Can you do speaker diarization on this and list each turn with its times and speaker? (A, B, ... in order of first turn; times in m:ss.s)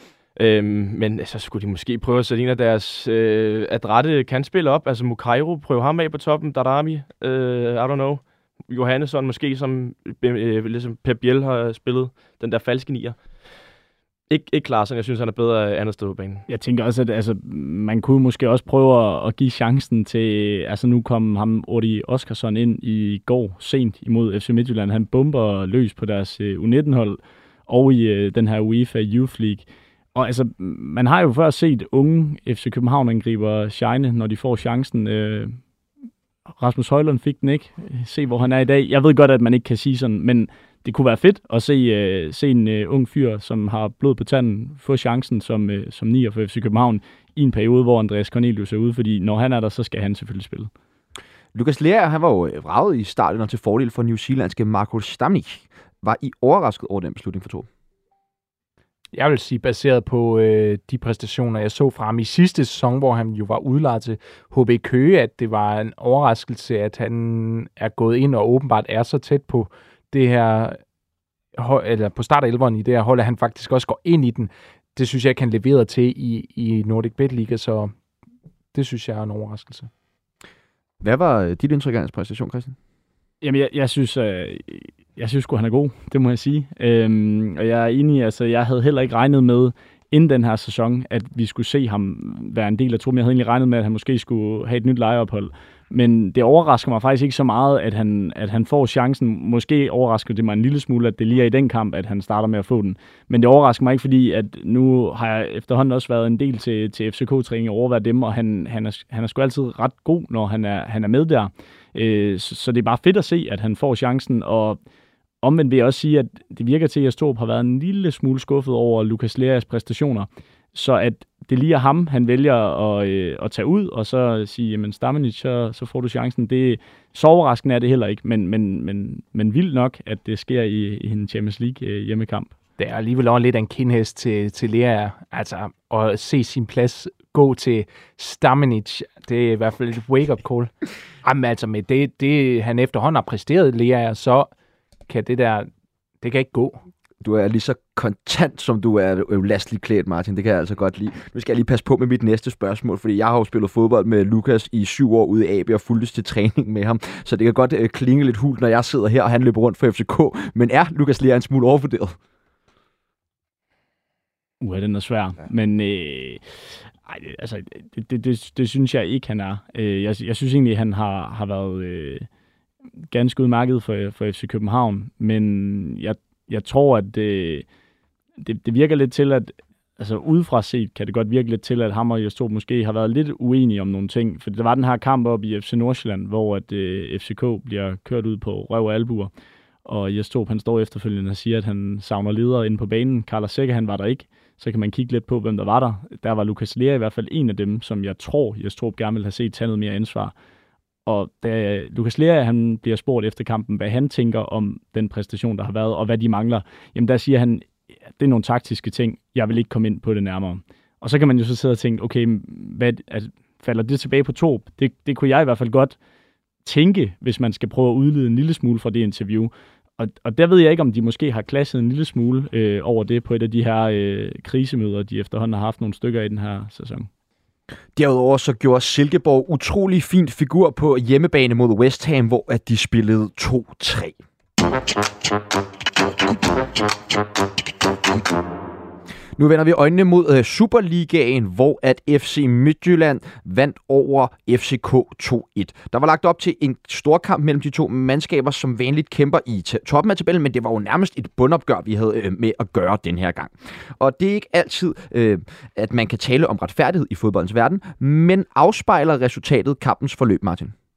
0:00.4-0:13.2 A
0:14.3-0:16.4 A
0:16.5-0:35.6 B
0:36.6-0:50.7 B
0:51.5-0:57.6 C
0:59.1-1:10.8 D
1:11.6-1:17.9 D
1:18.7-1:19.9 D
1:21.0-1:22.8 C
1:23.4-1:54.8 B
1:55.4-2:12.5 B
2:12.8-2:24.5 D
2:25.1-2:25.7 D
2:26.2-2:26.8 D
2:27.2-2:42.2 C
2:44.6-2:52.3 B
2:53.1-2:57.6 B
2:58.4-3:09.3 B
3:09.8-3:20.3 B
3:21.0-3:36.0 B
3:36.6-3:47.1 B
3:47.9-3:54.2 C
3:59.4-4:20.7 C